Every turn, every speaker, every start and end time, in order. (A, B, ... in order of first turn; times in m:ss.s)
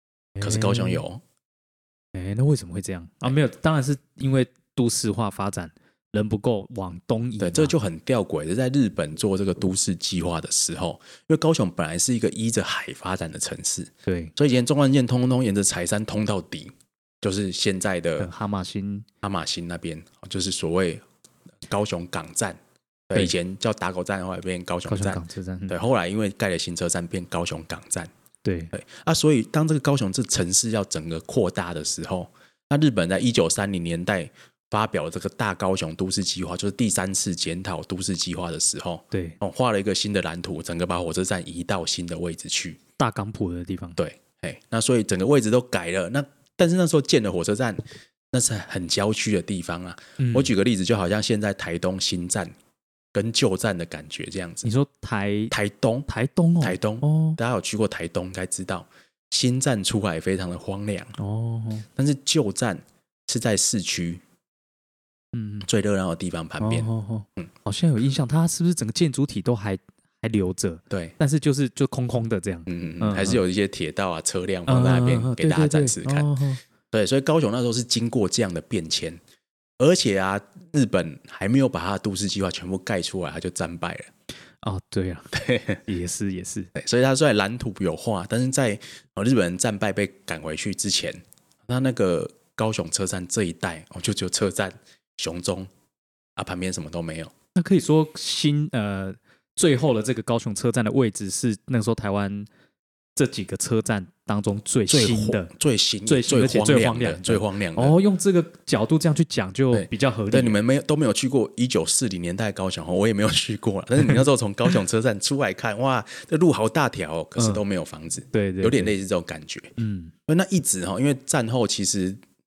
0:00.4-0:01.0 A
0:00.4-0:01.2 B
0:02.1-0:07.8 A
0:07.4-0:18.3 B
0:14.0-0:14.3 A
0:18.2-0:19.1 A
0:19.2-0:21.0 B
0:21.7-0:22.6 B
0:23.1-0:28.1 B
0:24.9-0:25.7 A
0:28.4-0:28.7 A
0:28.7-0:42.8 B
0:39.1-0:39.4 A
0:43.0-0:44.0 A
0:44.0-0:47.8 B
0:48.3-0:52.5 B
0:50.2-0:50.5 A
0:53.1-0:54.7 B
0:54.6-0:55.5 A
0:55.5-0:56.1 B
0:56.1-0:57.4 A
0:56.6-1:01.2 B
1:01.2-1:01.9 A
1:02.0-1:04.2 B
1:05.3-1:05.6 A
1:05.6-1:07.5 B
1:06.6-1:13.4 A
1:12.7-1:16.3 B
1:14.7-1:16.6 A
1:16.9-1:19.2 B
1:19.8-1:24.1 B
1:24.6-1:25.3 A
1:25.3-1:25.8 B
1:25.8-1:26.7 A
1:26.7-1:35.7 B
1:36.4-1:37.3 B
1:37.5-1:42.5 A
1:43.1-1:45.5 A
1:44.9-1:48.0 B
1:46.0-1:50.6 A
1:49.7-1:59.7 B
1:57.4-1:57.6 A
1:58.3-1:58.9 A
1:59.8-2:00.1 A
2:00.3-2:02.2 B